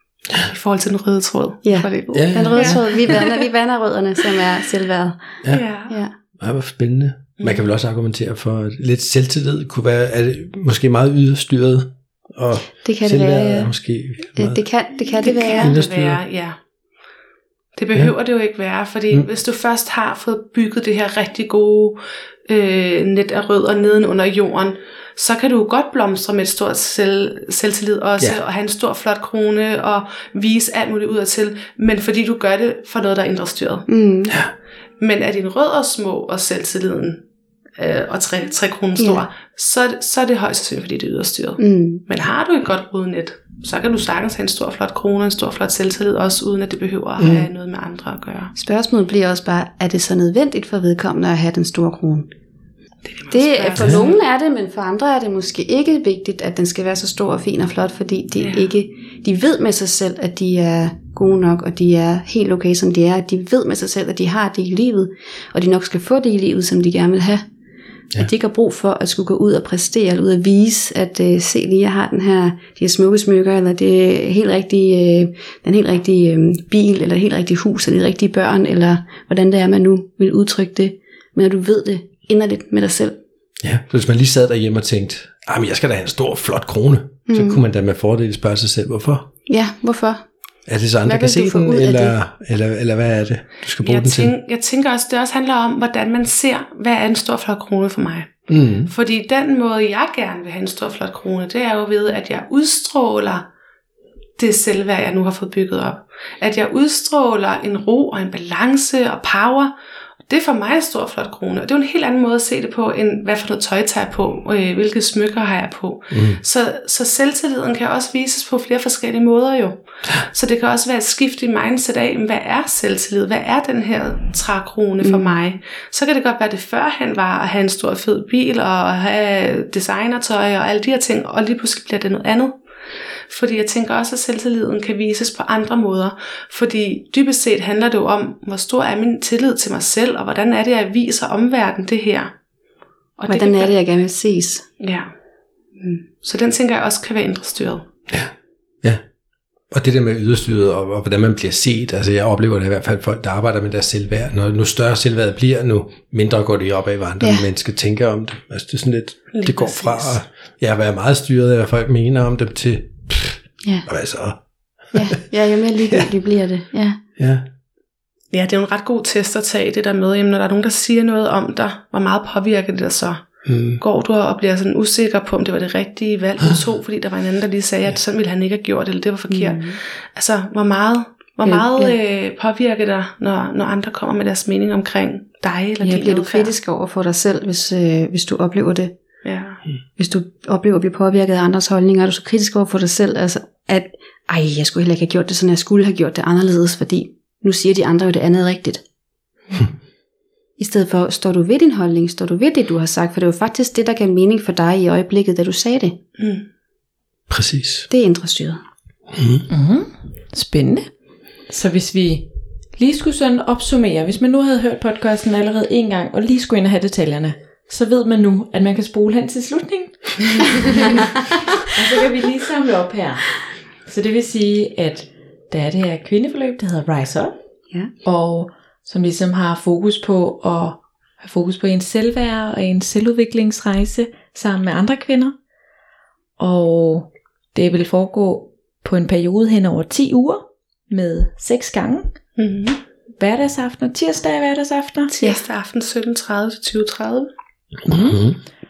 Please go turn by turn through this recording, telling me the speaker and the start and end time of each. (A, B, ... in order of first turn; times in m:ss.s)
0:00.3-0:03.4 A
0:01.6-0:05.2 B
0:02.1-0:02.8 C
0:05.5-0:06.0 A
0:06.4-0:14.6 C
0:12.8-0:13.7 B
0:14.4-0:15.8 B
0:15.2-0:16.6 A
0:15.6-0:16.2 C
0:17.8-0:33.9 A
0:33.9-0:34.4 B
0:35.0-0:37.2 A
0:37.8-0:48.5 A
0:39.0-0:39.2 B
0:41.6-0:42.0 B
0:47.2-0:47.5 C
0:48.6-0:52.3 B
0:53.1-0:54.2 A
0:53.3-1:07.4 B
0:53.8-0:54.0 C
0:58.4-0:58.7 A
1:08.2-1:23.1 B
1:23.6-1:29.2 C
1:27.3-1:27.6 B
1:29.5-1:30.2 B
1:30.7-1:34.3 C
1:31.0-1:32.2 B
1:33.8-1:43.4 A
1:38.5-1:38.9 C
1:44.4-1:49.7 A
1:50.3-2:12.5 A
1:56.1-1:56.4 C
2:05.0-2:05.4 B
2:13.3-2:22.3 A
2:23.2-2:23.8 A
2:23.3-2:24.6 B
2:24.8-2:25.1 A
2:25.8-2:26.0 B
2:26.2-2:27.8 A
2:29.7-2:45.1 C
2:37.2-2:37.4 B
2:39.3-2:40.2 A
2:44.9-2:47.0 B
2:47.2-2:47.4 C
2:48.3-3:06.5 A
2:53.4-2:53.8 C
2:59.3-2:59.8 B
3:01.4-3:01.9 B
3:05.8-3:08.9 B
3:09.2-3:09.6 A
3:10.0-3:18.8 B
3:20.6-3:26.0 B
3:26.2-3:26.4 A
3:27.3-3:27.9 C
3:27.9-3:28.6 B
3:29.1-3:29.4 C
3:29.5-3:41.1 D
3:41.7-3:47.4 D
3:48.0-3:55.3 D
3:56.4-4:02.2 D
4:02.4-4:02.8 A
4:03.2-4:05.4 D
4:05.1-4:07.3 A
4:07.9-4:08.3 D
4:07.9-4:08.4 C